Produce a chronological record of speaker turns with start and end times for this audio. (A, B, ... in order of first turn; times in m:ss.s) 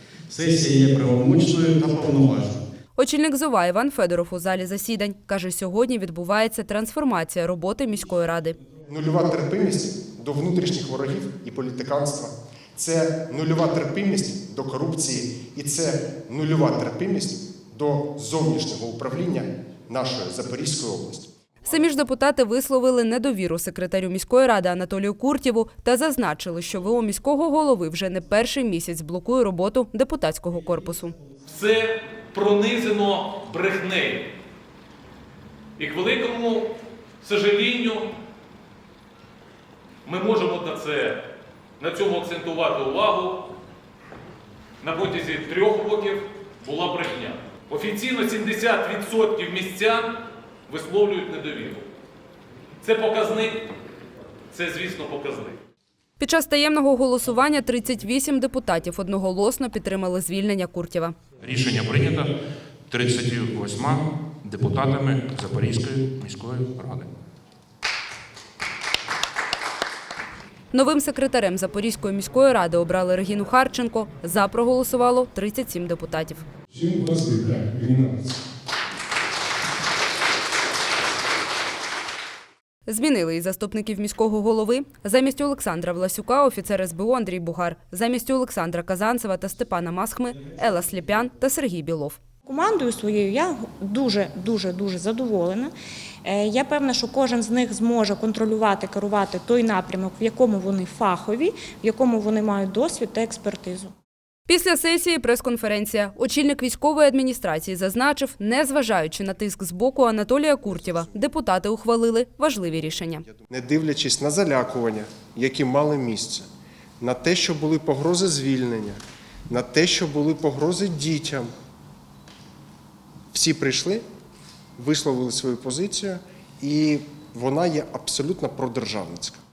0:00.3-0:02.7 A
0:03.0-0:08.6 B
0:08.9-0:21.3 C
0:21.6-0:31.2 B
0:31.5-0:34.3 D
0:35.8-0:38.1 D
0:40.0-0:41.2 D
0:41.8-0:43.5 D
0:44.8-0:51.8 D
0:52.8-0:53.7 D
0:54.5-0:55.6 D
0:56.2-1:01.2 B
1:01.4-1:02.3 E
1:02.9-1:07.1 E
1:10.7-1:16.4 B
1:16.8-1:18.2 C
1:22.9-1:32.2 B
1:32.5-1:35.7 F
1:36.2-1:43.9 F
1:44.5-1:53.2 B
1:53.5-1:56.5 C
1:57.0-2:01.5 C
2:03.3-2:04.0 C
2:04.8-2:09.4 C